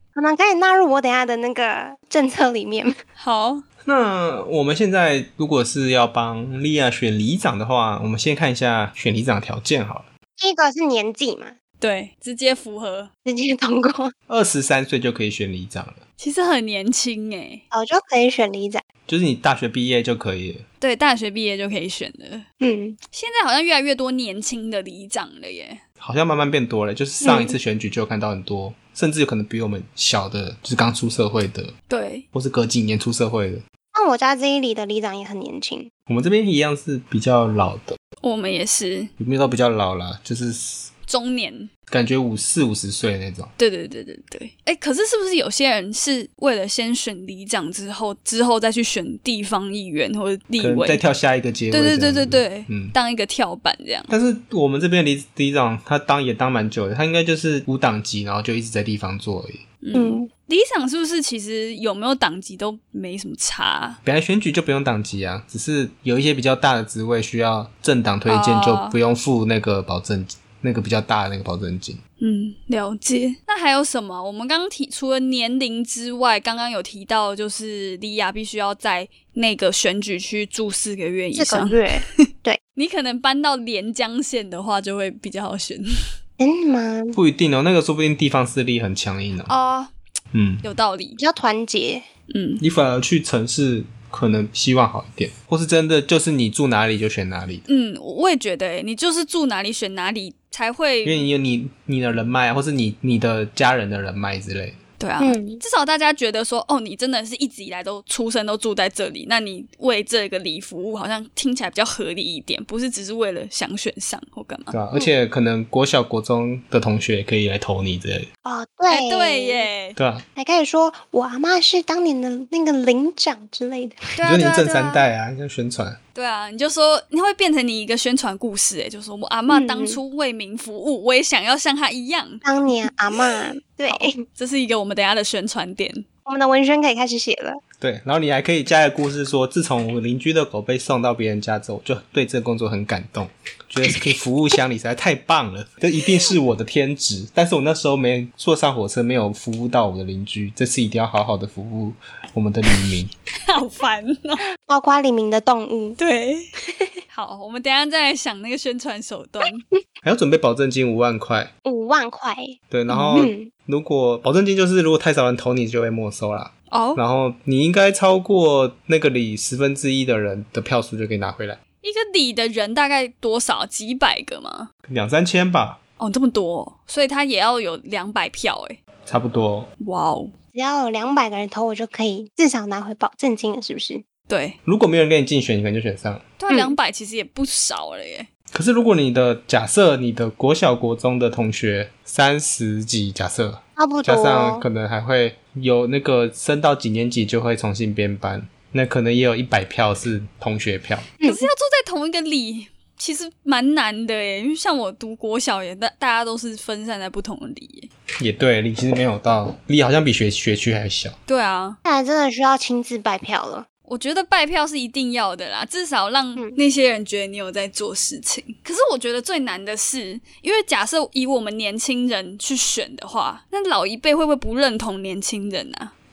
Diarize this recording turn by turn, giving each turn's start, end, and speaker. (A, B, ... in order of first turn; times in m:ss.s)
0:00.1-0:02.9 A
0:03.2-0:03.6 B
0:03.8-0:10.1 C
0:10.4-0:11.5 A
0:11.8-0:13.1 B
0:13.2-0:14.1 A
0:14.3-0:16.0 C
0:16.2-0:17.6 B
0:17.7-0:18.8 A
0:19.1-0:20.6 C
0:20.8-0:22.4 B
0:22.6-0:23.0 A
0:23.1-0:25.8 B
0:26.0-0:31.7 C
0:27.2-0:27.6 A
0:31.9-0:32.2 B
0:32.3-0:33.6 C
0:33.9-0:35.9 A
0:36.1-0:38.0 C
0:38.2-0:39.1 B
0:39.2-0:40.9 C
0:41.1-0:41.7 B
0:41.9-0:43.5 C
0:43.6-0:51.0 B
0:50.6-0:52.9 C
0:51.7-0:54.1 B
0:54.1-0:59.6 C
0:59.8-1:04.0 B
0:59.9-1:00.3 A
1:04.0-1:12.0 C
1:08.3-1:09.0 B
1:12.2-1:21.8 B
1:21.3-1:22.6 A
1:22.8-1:25.8 B
1:26.4-1:27.2 A
1:27.1-1:29.5 C
1:29.5-1:29.9 B
1:30.3-1:30.6 C
1:30.6-1:31.2 B
1:31.2-1:32.1 A
1:32.3-1:32.6 B
1:32.6-1:37.6 C
1:37.7-1:41.2 B
1:41.0-1:44.8 C
1:45.0-1:54.7 B
1:45.2-1:45.6 A
1:54.7-1:58.3 C
1:58.4-1:59.7 A
1:58.9-2:00.0 B
2:00.0-2:00.2 C
2:00.4-2:04.0 A
2:04.2-2:05.0 B
2:04.2-2:06.0 C
2:06.1-2:12.4 B
2:09.5-2:10.0 A
2:12.4-2:14.2 A
2:13.9-2:16.0 B
2:16.2-2:17.6 A
2:17.8-2:33.1 C
2:33.4-2:34.4 B
2:34.6-2:36.0 A
2:36.0-2:36.5 B
2:36.7-2:36.9 A
2:37.1-2:39.6 B
2:40.0-2:41.5 C
2:41.6-2:43.5 A
2:42.7-2:51.6 C
2:46.7-2:47.0 B
2:51.8-2:54.7 B
2:54.9-2:55.8 C
2:56.0-2:58.8 B
2:59.0-2:59.7 C
2:59.8-3:00.3 B
3:00.5-3:04.0 A
3:04.3-3:04.6 B
3:04.6-3:06.3 C
3:06.4-3:08.3 B
3:06.5-3:06.8 A
3:08.5-3:21.1 C
3:13.8-3:14.6 A
3:21.2-3:21.5 A
3:21.2-3:27.9 B
3:28.2-3:31.2 C
3:31.3-3:31.8 B
3:31.8-3:33.7 A
3:33.9-3:45.9 B